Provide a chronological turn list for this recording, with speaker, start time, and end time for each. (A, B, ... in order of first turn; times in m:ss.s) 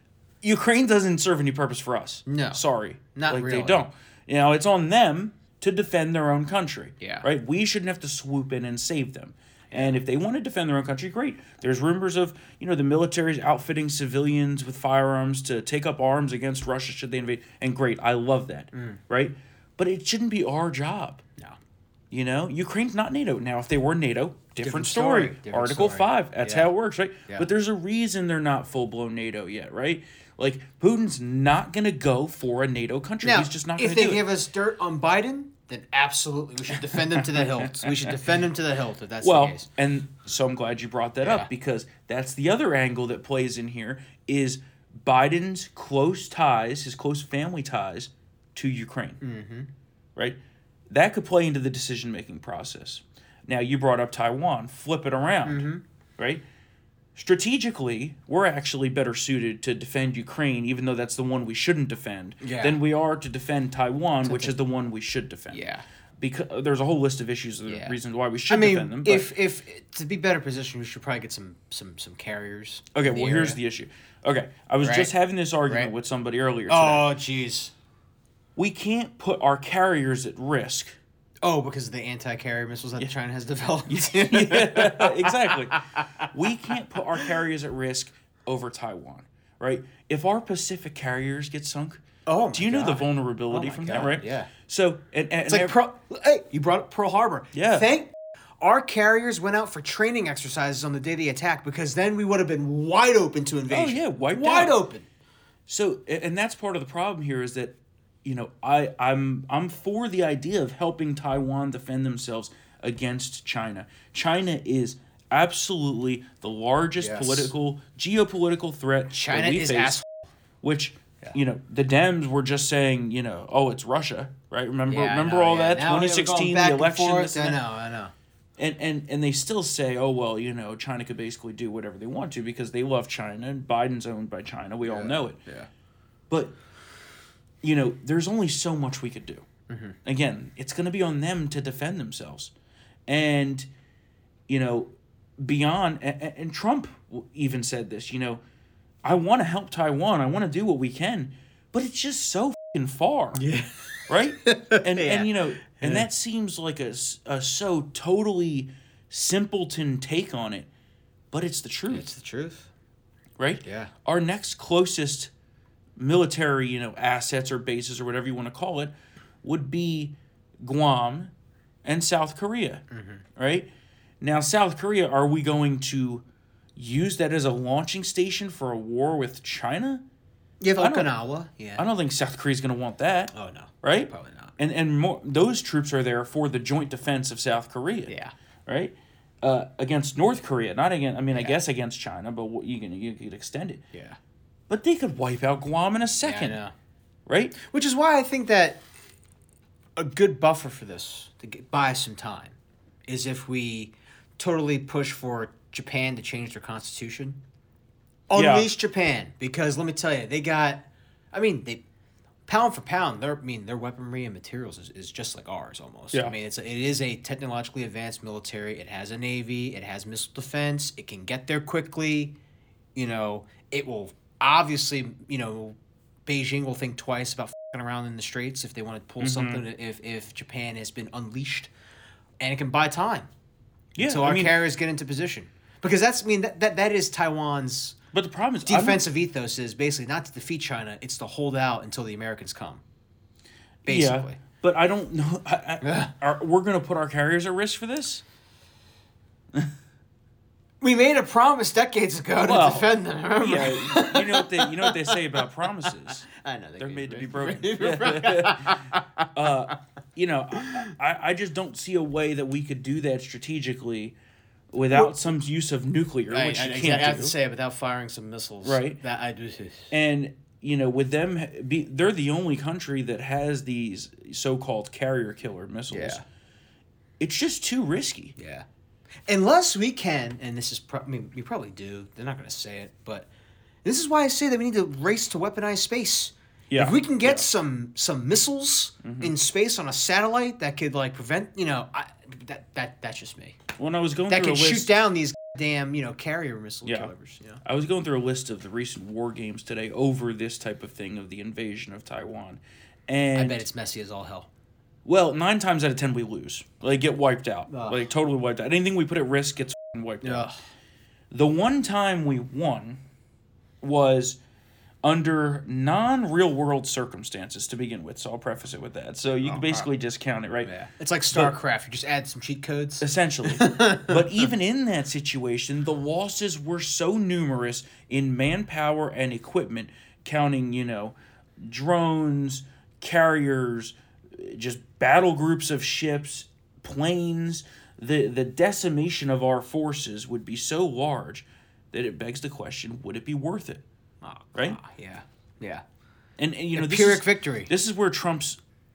0:00.4-0:21.2 A
0:02.2-0:02.6 B
0:03.1-0:03.8 B
0:07.0-0:07.2 B
0:09.7-0:10.0 B
0:18.7-0:19.0 B
0:22.1-0:34.2 A
0:24.6-0:26.7 B
0:33.2-0:39.7 B
0:37.3-0:38.1 A
0:39.2-0:49.2 A
0:41.2-0:41.5 B
0:49.2-0:49.7 B
0:50.9-0:55.7 A
0:55.4-0:55.8 B
0:56.2-0:56.4 A
0:57.2-1:09.3 A
1:02.4-1:02.8 B
1:04.2-1:04.5 B
1:05.5-1:05.8 B
1:07.7-1:08.0 B
1:08.5-1:13.6 B
1:12.9-1:17.1 A
1:14.8-1:15.1 B
1:16.7-1:17.7 B
1:18.6-1:21.0 A
1:21.4-1:27.3 B
1:23.9-1:35.8 A
1:32.2-1:34.5 B
1:35.5-1:45.1 B
1:37.5-1:37.9 A
1:43.7-1:44.8 A
1:45.7-2:00.0 A
1:57.0-1:57.5 B
1:59.1-2:00.1 B
2:00.6-2:07.6 A
2:04.9-2:08.1 B
2:08.6-2:15.4 A
2:14.8-2:15.7 B
2:16.3-2:16.6 A
2:17.6-2:19.4 A
2:19.7-2:20.0 B
2:20.0-2:22.5 A
2:23.1-2:23.7 A
2:24.5-2:28.4 A
2:29.0-2:33.4 A
2:33.3-2:36.1 B
2:34.1-2:40.7 A
2:41.3-2:42.0 A
2:41.9-2:42.7 B
2:43.4-2:45.3 A
2:43.6-2:43.9 B
2:46.0-2:51.3 A
2:51.8-2:52.8 A
2:52.9-2:53.2 B
2:53.4-2:53.7 A
2:54.2-2:56.2 A
2:56.8-3:00.0 A
3:00.6-3:01.8 B
3:00.8-3:01.1 A
3:01.8-3:08.1 A
3:03.3-3:04.6 B
3:08.1-3:08.3 B
3:08.7-3:13.8 A
3:13.9-3:14.2 B
3:14.7-3:16.6 A
3:16.2-3:16.7 B
3:17.3-3:17.6 A
3:17.6-3:18.8 B
3:20.0-3:22.6 B
3:23.1-3:27.4 B
3:28.3-3:31.8 B
3:28.3-3:28.7 A
3:32.5-3:42.4 B
3:42.9-3:51.7 B
3:49.2-3:49.6 A
3:52.4-3:53.3 B
3:53.9-3:54.6 A
3:54.0-3:58.0 B
3:58.1-3:59.0 A
3:58.6-4:02.8 B
4:03.8-4:04.4 B
4:03.8-4:08.2 A
4:05.8-4:06.1 B
4:10.8-4:19.2 B
4:12.4-4:16.3 A
4:16.8-4:24.1 A
4:20.6-4:20.8 B
4:24.7-4:27.3 A
4:24.8-4:25.2 B
4:26.3-4:29.9 B
4:28.6-4:29.0 A
4:29.9-4:36.2 A
4:35.9-4:36.2 B
4:37.2-4:38.4 A
4:38.4-4:38.6 B
4:39.2-4:43.3 B
4:43.8-4:53.6 B
4:46.7-4:47.4 A
4:49.0-4:49.3 A
4:53.8-4:54.9 A
4:54.3-4:57.6 B
4:56.8-4:57.1 A
4:57.6-5:03.6 A
5:03.3-5:04.5 B
5:05.0-5:10.5 A
5:07.7-5:08.0 B
5:10.2-5:10.5 B
5:11.3-5:13.0 A
5:13.8-5:14.4 A
5:15.0-5:20.7 A
5:19.4-5:19.9 B
5:20.6-5:24.5 B
5:23.0-5:43.8 A
5:44.2-5:45.8 B
5:46.4-5:48.6 A
5:46.7-5:47.7 B